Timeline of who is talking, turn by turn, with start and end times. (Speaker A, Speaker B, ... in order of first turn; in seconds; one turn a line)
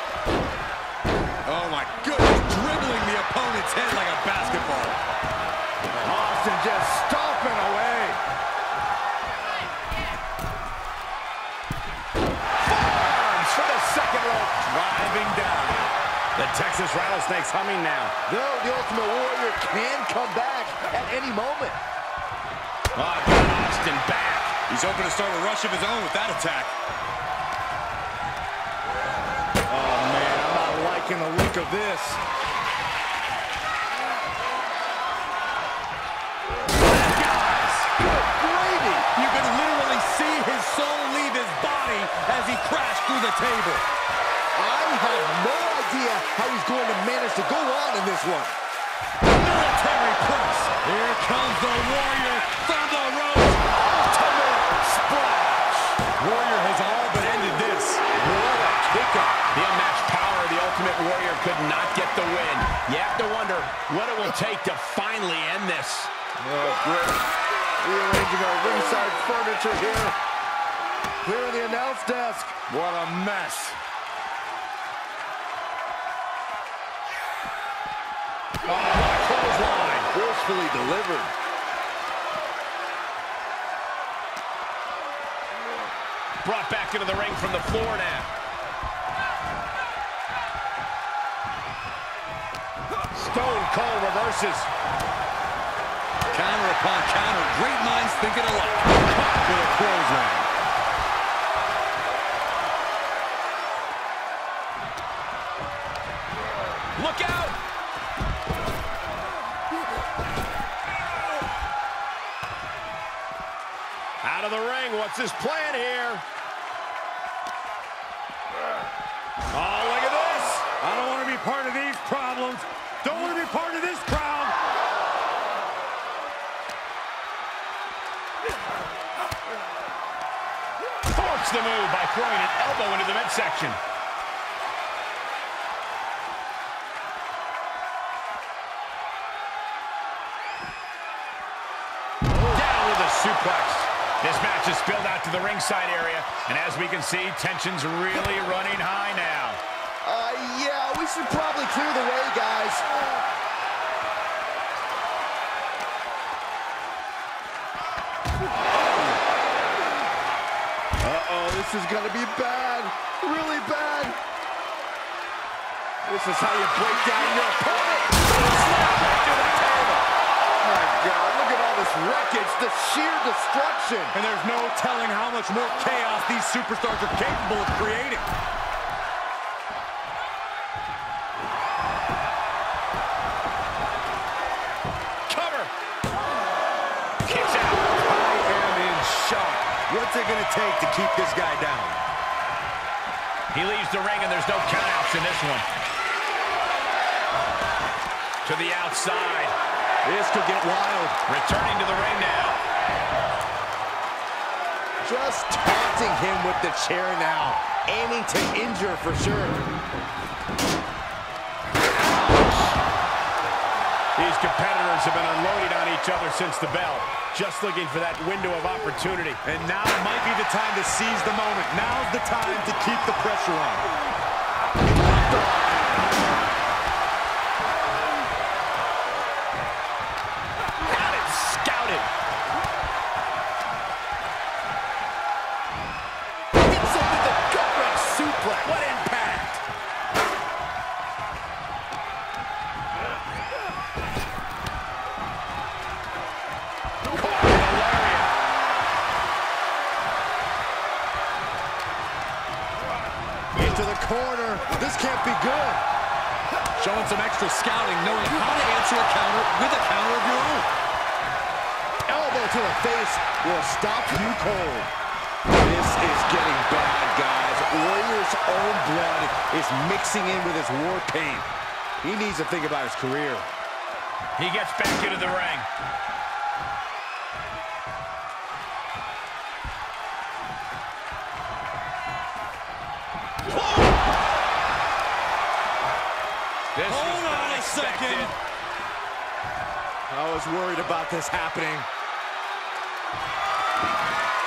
Speaker A: 1.4-5.0
Speaker B: 6.0-8.2
Speaker C: 12.6-18.1
Speaker B: 18.3-21.8
Speaker C: 22.9-24.6
Speaker A: 24.7-26.7
Speaker B: 29.7-32.2
Speaker A: 36.9-37.8
Speaker B: 37.9-39.1
Speaker A: 39.1-43.9
Speaker B: 44.5-48.5
Speaker A: 49.2-53.6
Speaker B: 53.7-56.0
Speaker A: 56.2-58.0
Speaker B: 58.1-59.4
Speaker C: 59.5-66.1
Speaker B: 66.4-70.2
Speaker B: 71.2-72.8
Speaker A: 72.7-73.7
Speaker C: 78.6-80.1
Speaker B: 80.1-81.3
Speaker C: 86.4-88.3
Speaker C: 93.1-94.7
Speaker A: 96.3-100.5
Speaker C: 106.9-107.6
Speaker C: 114.2-116.2
Speaker C: 119.5-120.7
Speaker A: 120.8-124.6
Speaker C: 131.1-133.8
Speaker C: 142.5-149.6
Speaker B: 150.0-152.9
Speaker B: 161.0-164.2
Speaker B: 166.0-170.1
Speaker B: 170.6-174.2
Speaker A: 174.1-178.3
Speaker C: 185.3-185.7
Speaker C: 187.2-187.9
Speaker A: 188.0-192.0
Speaker C: 193.5-195.6
Speaker C: 198.4-199.5
Speaker B: 200.1-201.1
Speaker A: 200.3-200.9
Speaker C: 201.2-202.6
Speaker B: 205.0-209.6
Speaker C: 212.2-212.7
Speaker C: 214.2-219.4
Speaker A: 219.4-223.9
Speaker B: 225.1-225.8
Speaker C: 230.8-232.1
Speaker B: 236.6-238.8
Speaker C: 238.6-239.6
Speaker C: 247.1-248.4
Speaker B: 253.5-255.8
Speaker A: 256.8-260.7
Speaker B: 262.1-264.9
Speaker B: 265.6-271.5
Speaker B: 272.0-273.5
Speaker C: 274.4-275.7
Speaker C: 286.7-288.3
Speaker A: 286.9-288.3
Speaker B: 290.1-291.9